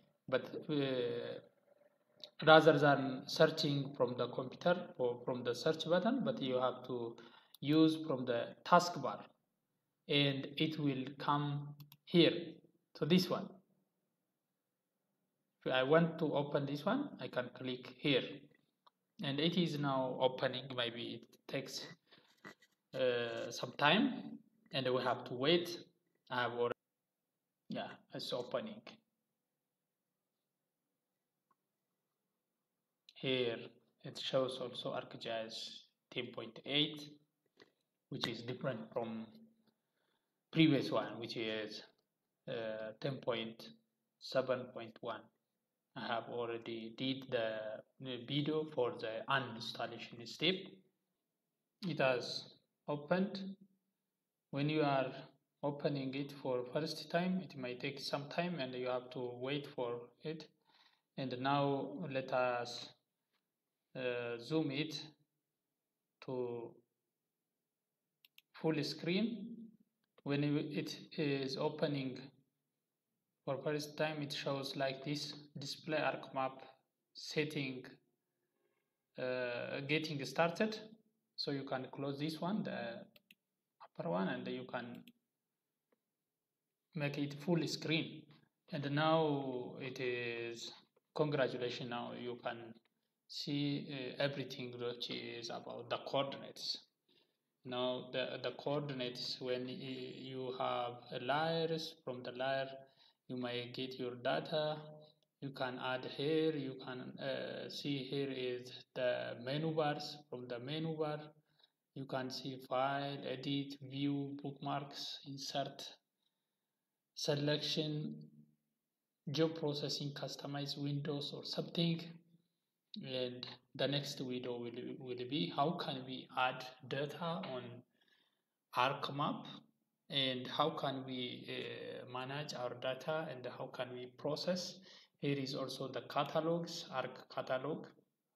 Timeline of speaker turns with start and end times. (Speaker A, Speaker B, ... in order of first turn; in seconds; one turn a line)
Speaker A: 0.3-1.4
Speaker A: 2.4-9.3
Speaker A: 10.1-13.6
Speaker A: 15.6-18.5
Speaker A: 19.2-22.0
Speaker A: 22.9-26.7
Speaker A: 27.7-29.0
Speaker A: 33.2-37.2
Speaker A: 38.1-39.5
Speaker A: 40.5-41.9
Speaker A: 42.5-45.3
Speaker A: 45.9-50.8
Speaker A: 51.8-53.6
Speaker A: 54.5-60.5
Speaker A: 61.1-63.0
Speaker A: 63.9-65.1
Speaker A: 66.2-66.8
Speaker A: 68.5-72.3
Speaker A: 73.4-78.0
Speaker A: 79.2-83.1
Speaker A: 83.8-85.1
Speaker A: 86.9-96.9
Speaker A: 97.6-111.3
Speaker A: 111.9-116.0
Speaker A: 117.2-118.4
Speaker A: 119.3-122.2
Speaker A: 123.0-127.8
Speaker A: 128.7-137.9